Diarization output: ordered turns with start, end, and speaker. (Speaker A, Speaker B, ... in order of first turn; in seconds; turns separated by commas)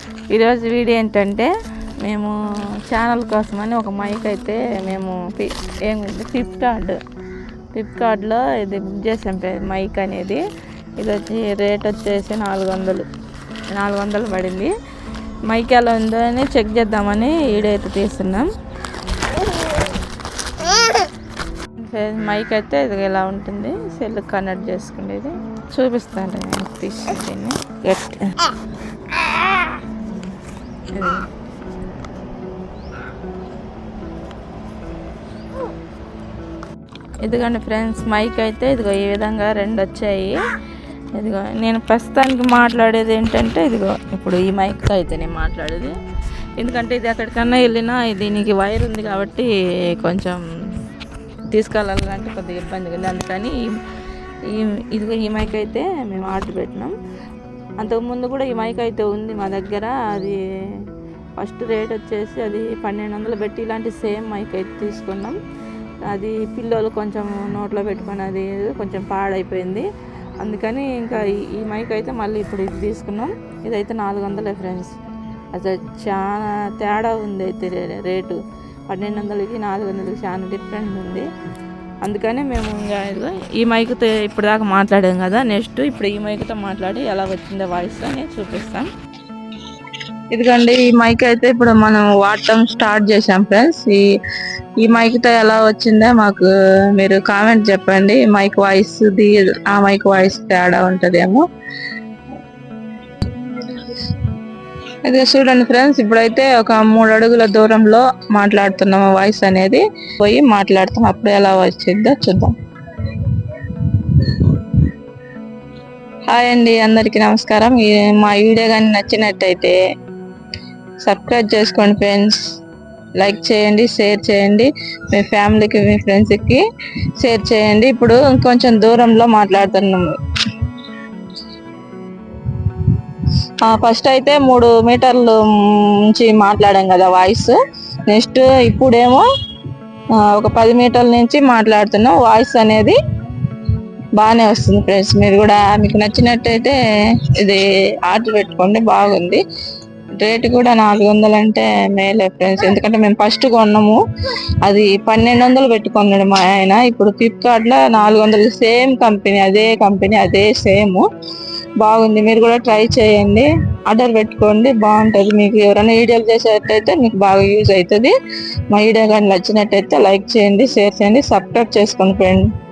Speaker A: 0.3-1.5, Speaker A: 2.0-2.4, Speaker A: 2.9-7.0, Speaker A: 7.7-10.4, Speaker A: 11.0-13.1, Speaker A: 13.7-14.7, Speaker A: 15.5-18.5, Speaker A: 21.8-28.4, Speaker A: 30.9-31.3, Speaker A: 37.2-40.4, Speaker A: 41.2-46.0, Speaker A: 46.6-50.4, Speaker A: 51.5-53.7, Speaker A: 54.5-56.9, Speaker A: 57.8-60.8, Speaker A: 61.4-65.4, Speaker A: 66.1-69.9, Speaker A: 70.4-75.0, Speaker A: 75.5-81.3, Speaker A: 82.0-88.9, Speaker A: 90.3-94.0, Speaker A: 94.8-101.4, Speaker A: 103.4-104.1, Speaker A: 105.1-114.8, Speaker A: 116.3-119.8, Speaker A: 121.0-122.4, Speaker A: 123.2-126.6, Speaker A: 127.2-130.2, Speaker A: 133.6-137.6, Speaker A: 138.1-139.3, Speaker A: 140.2-143.0, Speaker A: 144.2-149.4, Speaker A: 150.2-154.0, Speaker A: 154.6-161.1, Speaker A: 161.8-168.1, Speaker A: 168.7-172.5